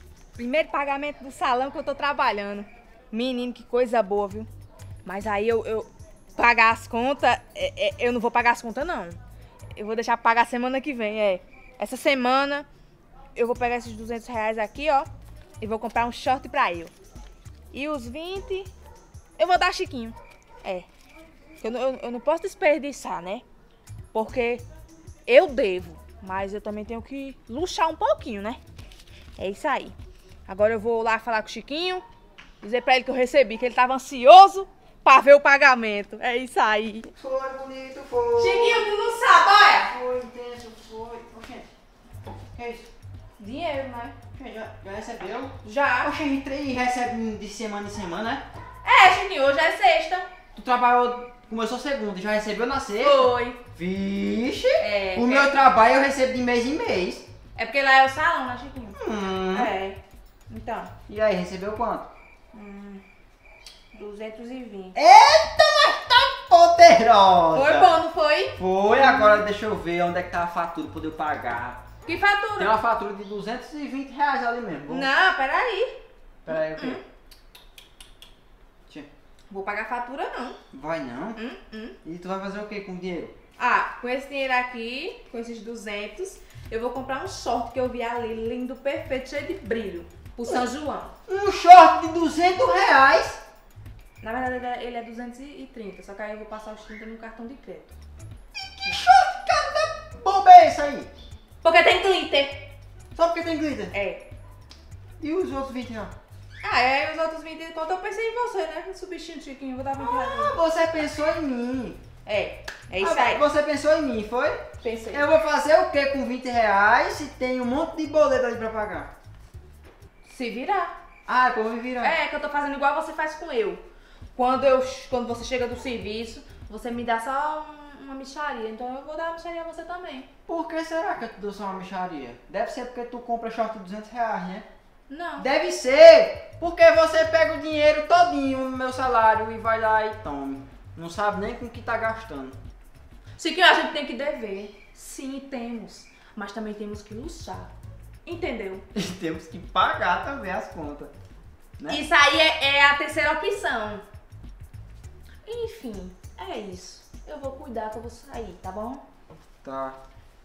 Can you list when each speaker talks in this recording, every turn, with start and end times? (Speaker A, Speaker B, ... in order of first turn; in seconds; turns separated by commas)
Speaker A: 0.3-4.5, Speaker A: 5.0-9.2, Speaker A: 9.8-12.7, Speaker A: 13.3-15.1, Speaker A: 15.6-16.9, Speaker A: 17.7-18.7, Speaker A: 19.4-20.9, Speaker A: 21.6-23.4, Speaker A: 24.1-24.6, Speaker A: 25.3-28.6, Speaker A: 29.4-29.9, Speaker A: 30.5-32.0, Speaker A: 32.6-37.1, Speaker B: 37.1-39.0, Speaker A: 38.4-39.9, Speaker B: 39.6-41.6, Speaker B: 42.5-42.9, Speaker A: 43.4-44.1, Speaker B: 44.3-48.4, Speaker A: 45.6-46.1, Speaker A: 48.8-50.3, Speaker B: 50.5-57.3, Speaker A: 53.0-53.6, Speaker A: 54.8-55.5, Speaker A: 57.5-60.9, Speaker B: 58.9-59.7, Speaker B: 61.1-62.1, Speaker A: 62.5-63.0, Speaker A: 63.9-65.0, Speaker B: 64.9-68.0, Speaker A: 67.5-69.4, Speaker B: 68.5-71.8, Speaker A: 72.0-72.8, Speaker B: 72.6-75.1, Speaker A: 74.9-76.0, Speaker B: 76.4-77.0, Speaker A: 76.5-77.0, Speaker A: 79.5-80.6, Speaker B: 80.7-81.4, Speaker A: 81.3-82.0, Speaker B: 82.0-83.3, Speaker A: 83.6-91.1, Speaker B: 91.3-93.4, Speaker A: 94.2-97.9, Speaker B: 98.5-101.1, Speaker A: 101.6-102.7, Speaker B: 103.1-103.9, Speaker A: 103.9-104.2, Speaker B: 105.2-106.1, Speaker A: 106.6-110.6, Speaker B: 110.0-112.0, Speaker A: 112.2-113.4, Speaker B: 113.0-119.1, Speaker A: 114.8-115.2, Speaker A: 120.2-120.9, Speaker B: 121.2-122.2, Speaker A: 122.0-123.8, Speaker A: 124.3-130.3, Speaker B: 130.5-134.7, Speaker A: 135.1-135.5, Speaker B: 135.4-142.6, Speaker A: 143.4-147.7, Speaker A: 148.2-148.8, Speaker B: 148.9-151.1, Speaker B: 151.8-152.0, Speaker A: 151.9-154.0, Speaker A: 155.4-159.0, Speaker B: 159.6-160.0